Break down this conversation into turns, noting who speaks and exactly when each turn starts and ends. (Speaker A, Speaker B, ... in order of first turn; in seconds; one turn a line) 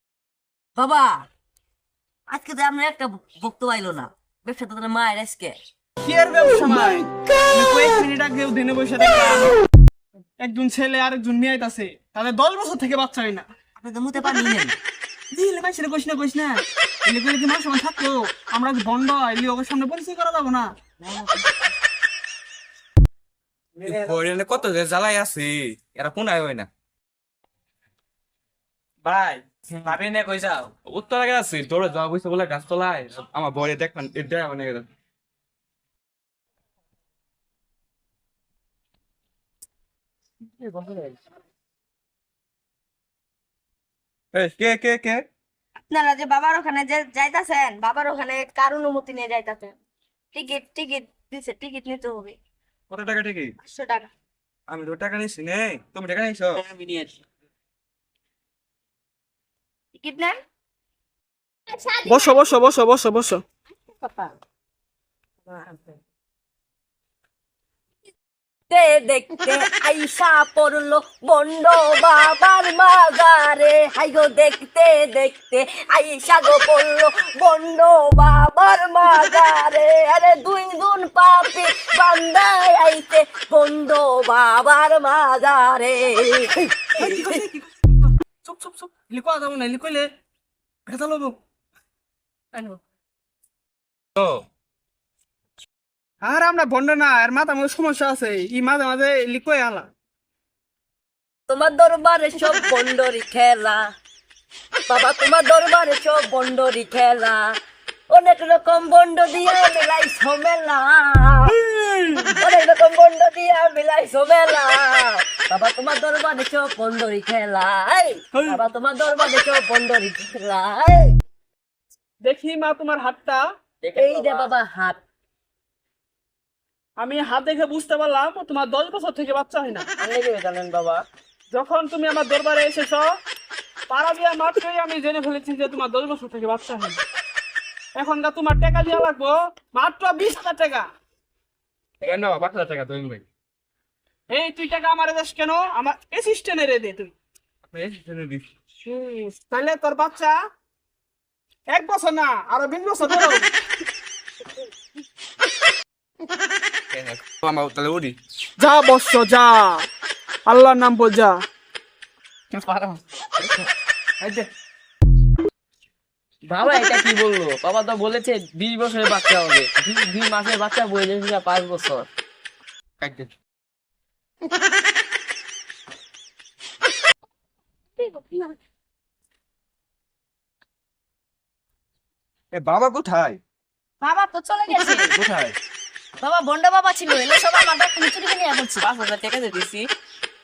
Speaker A: 0.8-1.3
Speaker A: 2.3-5.6
Speaker B: 6.0-9.6
Speaker B: 10.4-13.5
Speaker A: 13.8-14.8
Speaker B: 15.3-20.7
Speaker A: 21.0-21.7
Speaker C: 23.8-26.7
Speaker C: 29.1-34.9
Speaker D: 40.8-41.0
Speaker C: 44.3-45.2
Speaker E: 45.9-49.8
Speaker E: 50.3-52.4
Speaker C: 52.9-53.5
Speaker E: 53.6-54.1
Speaker C: 54.7-56.6
Speaker E: 60.0-60.4
Speaker E: 61.8-62.4
Speaker B: 62.1-63.4
Speaker A: 68.7-87.4
Speaker B: 87.0-90.1
Speaker B: 90.9-91.4
Speaker C: 94.2-94.5
Speaker B: 96.2-99.9
Speaker A: 101.5-103.9
Speaker A: 104.9-107.5
Speaker A: 108.1-111.6
Speaker A: 112.4-121.2
Speaker B: 122.2-123.4
Speaker D: 123.8-124.5
Speaker A: 124.0-125.0
Speaker B: 127.0-129.9
Speaker D: 130.0-131.0
Speaker B: 131.5-133.1
Speaker B: 133.9-137.0
Speaker B: 138.0-140.9
Speaker C: 142.0-143.2
Speaker B: 144.3-147.1
Speaker C: 147.7-148.5
Speaker B: 148.8-150.4
Speaker B: 151.7-153.5
Speaker C: 156.9-158.2
Speaker B: 158.6-159.8
Speaker B: 160.5-161.4
Speaker D: 162.6-162.9
Speaker C: 163.4-163.7
Speaker C: 164.2-164.5
Speaker D: 166.5-172.1
Speaker C: 173.0-173.3
Speaker E: 178.0-178.5
Speaker C: 182.5-183.4
Speaker E: 184.0-185.1
Speaker C: 185.1-185.6
Speaker E: 186.2-188.8
Speaker D: 188.8-189.8